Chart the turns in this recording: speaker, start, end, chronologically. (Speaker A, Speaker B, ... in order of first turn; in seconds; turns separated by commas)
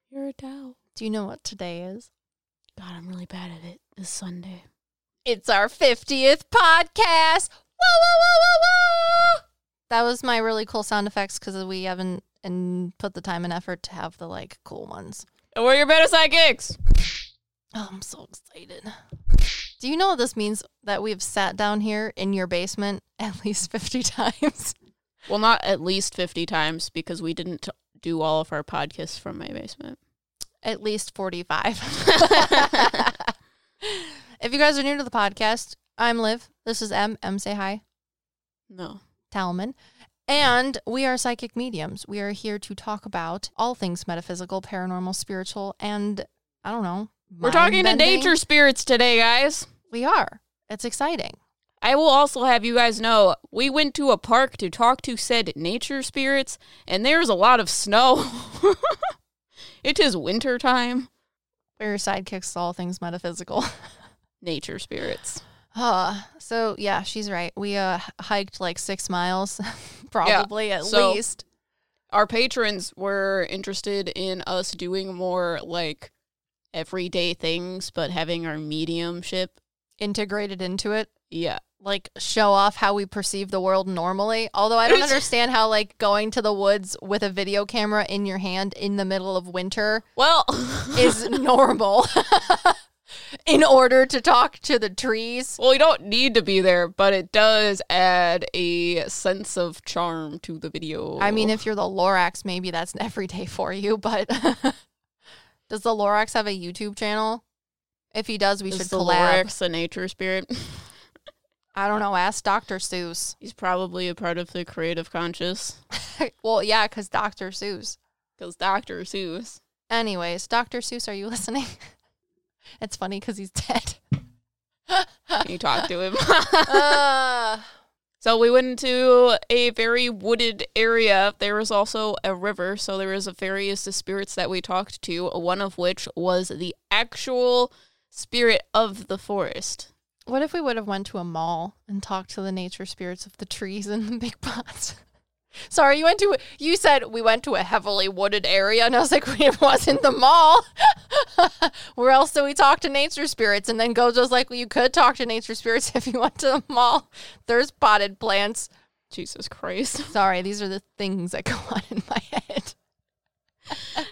Speaker A: 0.1-0.8, Speaker B: 0.9-2.1, Speaker A: 2.8-4.6, Speaker B: 5.2-15.3, Speaker A: 15.5-16.8, Speaker B: 17.7-18.9, Speaker B: 19.8-24.8, Speaker A: 25.3-30.0, Speaker B: 30.6-37.8, Speaker A: 32.2-32.9, Speaker A: 38.7-39.0, Speaker B: 39.3-39.8, Speaker B: 40.3-48.4, Speaker A: 47.4-49.7, Speaker B: 49.9-51.4, Speaker A: 51.8-59.1, Speaker A: 59.8-61.1, Speaker B: 61.8-64.0, Speaker A: 64.4-65.4, Speaker B: 65.7-71.4, Speaker A: 70.2-71.2, Speaker A: 72.1-76.1, Speaker A: 76.7-79.6, Speaker B: 80.0-81.1, Speaker A: 81.3-81.6, Speaker B: 81.8-90.1, Speaker A: 84.8-85.2, Speaker A: 90.2-91.2, Speaker B: 90.9-92.8, Speaker B: 93.5-95.6, Speaker A: 95.6-101.6, Speaker B: 101.2-104.8, Speaker B: 105.7-107.4, Speaker B: 108.1-109.5, Speaker A: 108.7-110.9, Speaker B: 111.7-113.4, Speaker A: 113.4-115.8, Speaker B: 116.2-118.0, Speaker A: 118.4-119.6, Speaker B: 119.9-121.9, Speaker B: 122.8-124.2, Speaker B: 124.9-125.9, Speaker A: 125.4-127.0, Speaker B: 126.7-127.7, Speaker A: 128.2-139.9, Speaker B: 140.3-145.0, Speaker B: 145.7-158.7, Speaker A: 159.1-160.1, Speaker B: 160.1-162.8